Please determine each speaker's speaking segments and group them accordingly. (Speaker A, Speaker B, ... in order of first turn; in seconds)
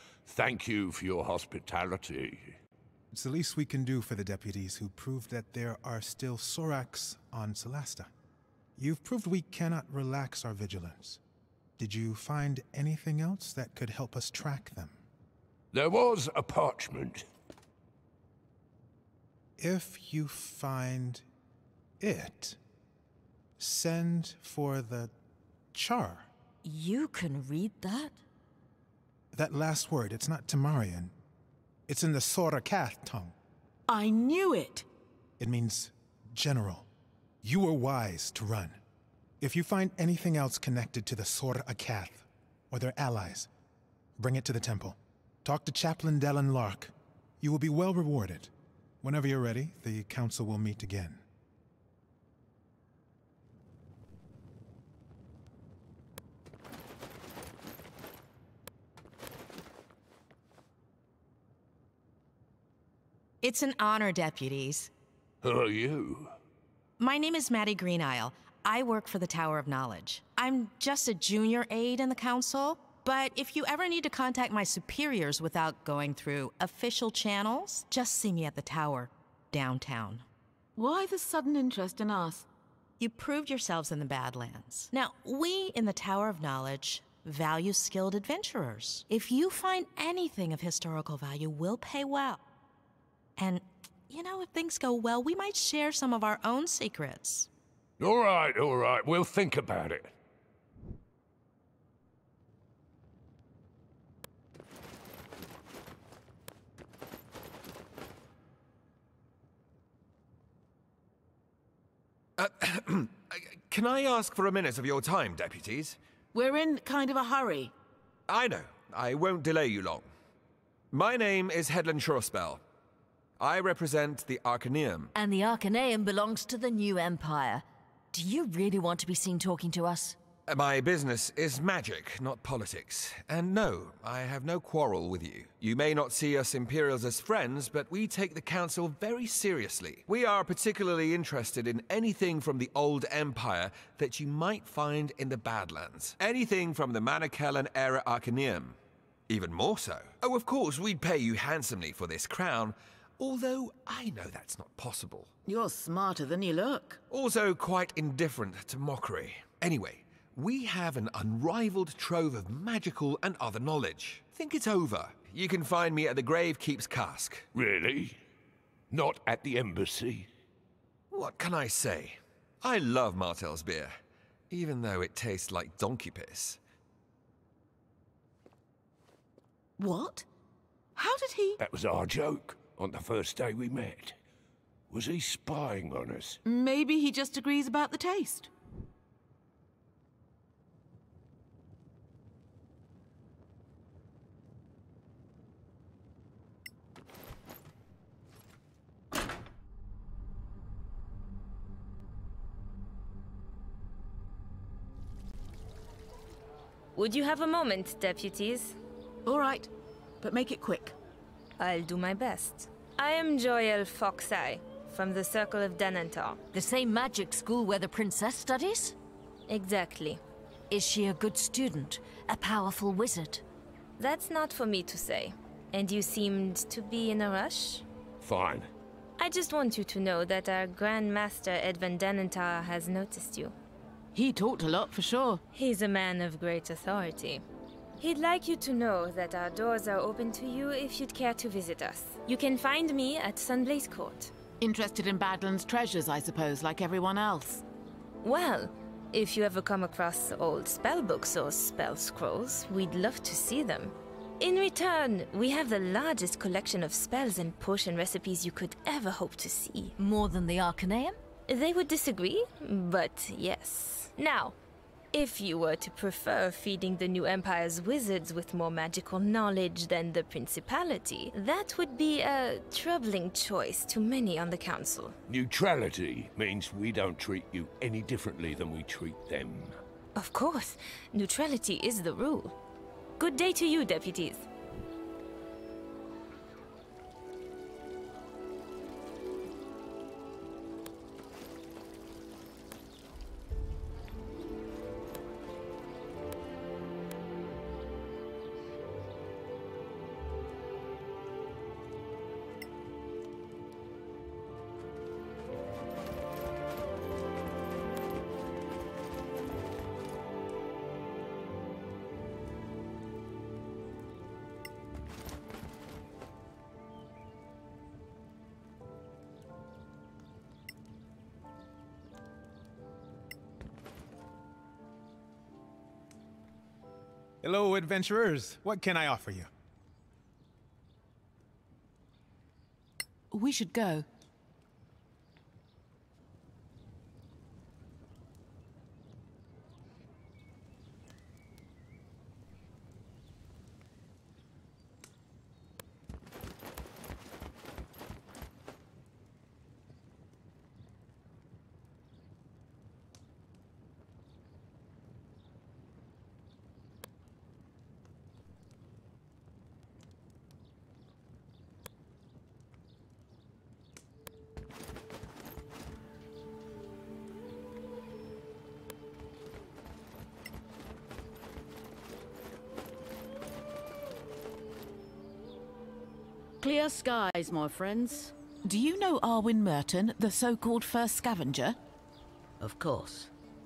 Speaker A: 0.2-2.5, 15.7-17.2, 65.4-66.3, 98.0-100.1, 167.5-168.2, 168.9-170.3, 181.6-184.2, 184.9-186.4, 228.2-228.7, 275.3-279.8
Speaker B: 3.1-8.1, 8.8-11.2, 11.8-15.0, 19.6-21.2, 22.0-22.6, 23.6-25.1, 25.7-26.3, 29.3-31.1, 31.9-33.3, 35.4-36.9, 37.4-38.8, 39.4-43.5, 44.2-51.2, 327.4-329.5
Speaker C: 26.6-28.2, 125.1-130.2, 216.5-218.9, 220.7-223.4, 260.0-261.2
Speaker D: 33.9-34.9, 80.8-82.5, 116.3-117.7, 155.4-157.0, 179.8-180.3, 180.9-181.6, 186.4-188.5, 209.2-209.7, 210.2-210.9, 234.1-235.4, 244.6-247.6, 333.3-334.0, 378.6-381.8
Speaker E: 63.4-64.9, 67.0-80.2, 83.0-92.4, 93.4-97.5
Speaker F: 112.4-116.0, 118.3-120.1, 120.9-122.6, 123.4-125.1, 130.5-148.8, 149.3-155.3, 157.1-167.4, 171.1-174.0, 174.5-176.6
Speaker G: 206.9-208.8, 211.6-216.4, 219.5-220.2, 224.0-227.8, 229.2-233.5, 235.5-237.4, 238.0-244.3, 248.2-259.9, 261.5-264.5, 265.1-275.2, 280.1-282.5, 283.2-284.4
Speaker H: 376.6-378.3, 382.8-383.2